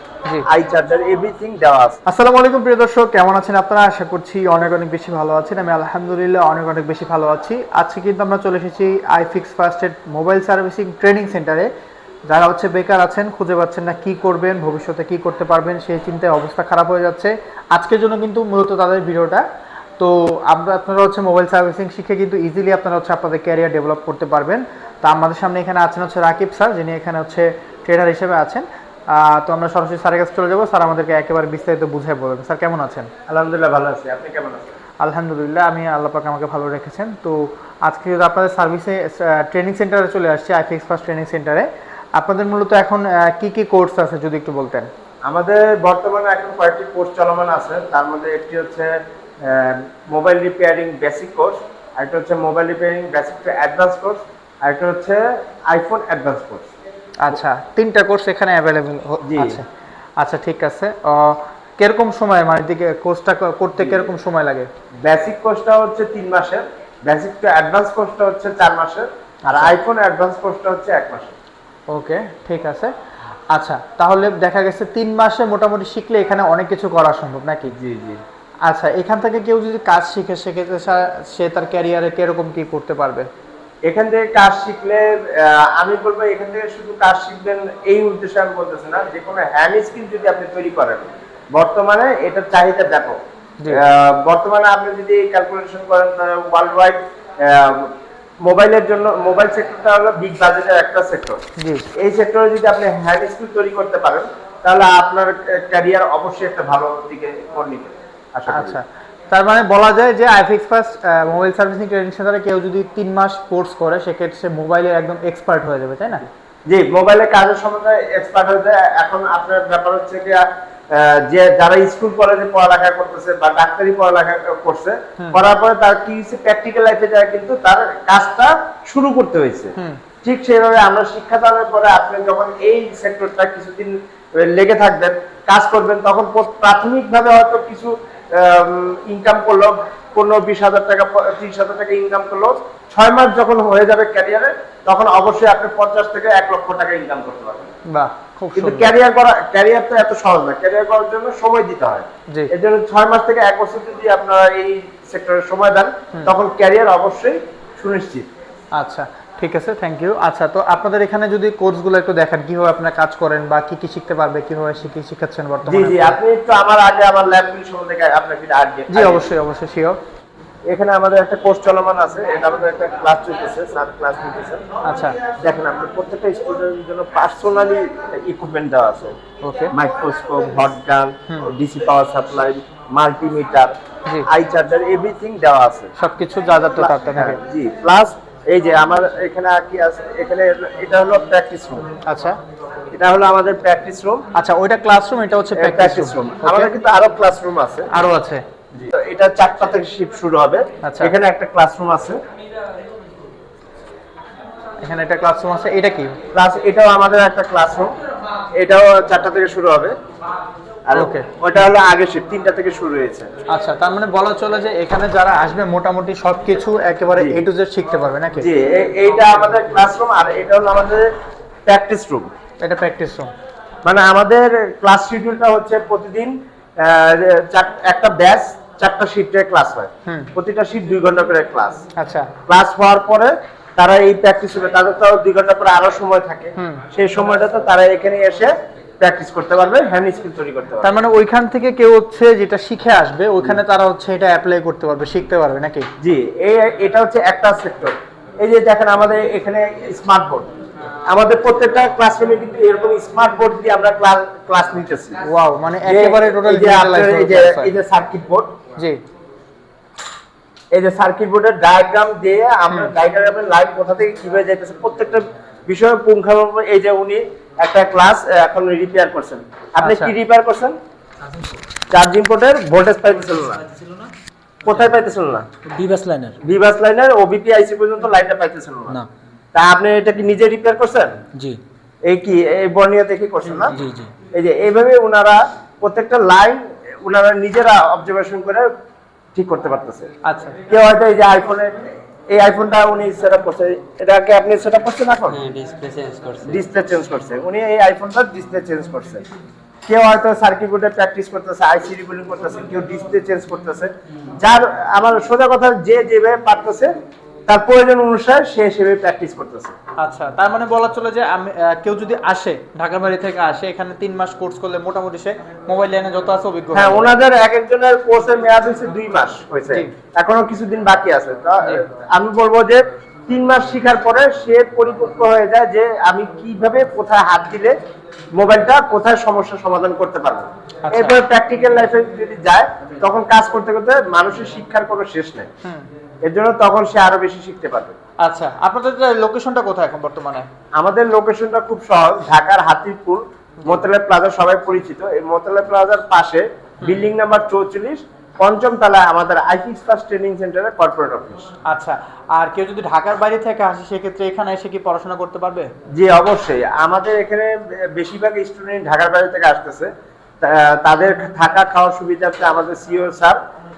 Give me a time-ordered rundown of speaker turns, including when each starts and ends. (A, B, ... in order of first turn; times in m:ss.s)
0:00.4-0:02.0 A
0:02.0-0:11.7 B
0:12.3-0:19.4 B
0:20.0-0:33.1 B
0:33.3-0:34.8 A
0:35.0-0:44.9 B
0:45.3-0:56.7 A
0:57.2-0:59.6 B
0:59.2-0:59.6 A
1:00.2-1:04.7 B
1:05.0-1:11.4 A
1:09.5-1:09.8 B
1:11.9-1:12.9 B
1:13.5-1:17.7 B
1:17.7-1:18.2 A
1:18.7-1:23.3 B
1:23.8-1:33.2 A
1:33.7-1:37.9 A
1:38.4-1:41.4 A
1:41.6-1:41.9 B
1:42.0-1:48.8 A
1:48.5-1:56.2 B
1:56.7-2:27.7 A
2:27.9-2:28.9 B
2:28.6-2:38.3 A
2:38.8-2:46.2 B
2:45.7-2:49.3 A
2:48.9-2:50.0 B
2:50.7-2:54.6 A
2:54.8-2:55.2 B
2:55.4-2:59.2 A
2:59.4-2:59.7 B
2:59.7-3:03.7 A
3:04.3-3:05.9 A
3:06.0-3:07.4 B
3:06.8-3:11.9 A
3:12.1-3:12.4 B
3:12.9-3:14.2 A
3:14.3-3:16.7 B
3:15.6-3:17.9 A
3:17.9-3:18.4 B
3:18.7-3:22.2 A
3:20.8-3:21.1 B
3:24.8-3:26.1 B
3:26.3-3:27.9 A
3:28.6-3:30.0 A
3:30.9-3:33.3 A
3:30.9-3:31.3 B
3:33.5-3:38.5 B
3:38.4-3:41.1 A
3:41.7-3:42.3 A
3:42.6-3:43.3 B
3:43.8-3:51.8 A
3:50.0-3:50.3 B
3:52.0-3:52.3 B
3:52.5-4:01.0 A
3:56.6-3:56.8 B
4:00.8-4:05.9 B
4:06.0-4:10.5 A
4:11.1-4:15.2 A
4:15.2-4:17.7 B
4:15.8-4:18.5 A
4:20.7-4:30.7 A
4:29.8-4:30.1 B
4:31.9-4:33.6 A
4:34.7-4:35.5 A
4:35.6-4:36.4 C
4:36.4-4:39.0 A
4:39.5-4:41.2 A
4:41.3-4:41.6 C
4:42.1-4:43.8 A
4:43.7-4:44.1 C
4:44.3-4:48.7 A
4:49.3-4:50.1 A
4:50.2-4:50.6 B
4:50.7-4:55.5 A
4:55.3-4:56.6 C
4:56.4-4:59.2 A
4:59.9-5:06.9 A
5:07.5-5:09.7 A
5:10.0-5:17.1 B
5:16.7-5:27.7 A
5:28.4-5:35.5 A
5:30.8-5:31.2 B
5:36.2-5:38.0 A
5:38.2-5:40.5 B
5:40.8-5:51.5 A
5:51.7-5:55.7 B
5:55.9-5:59.9 A
6:00.4-6:03.4 A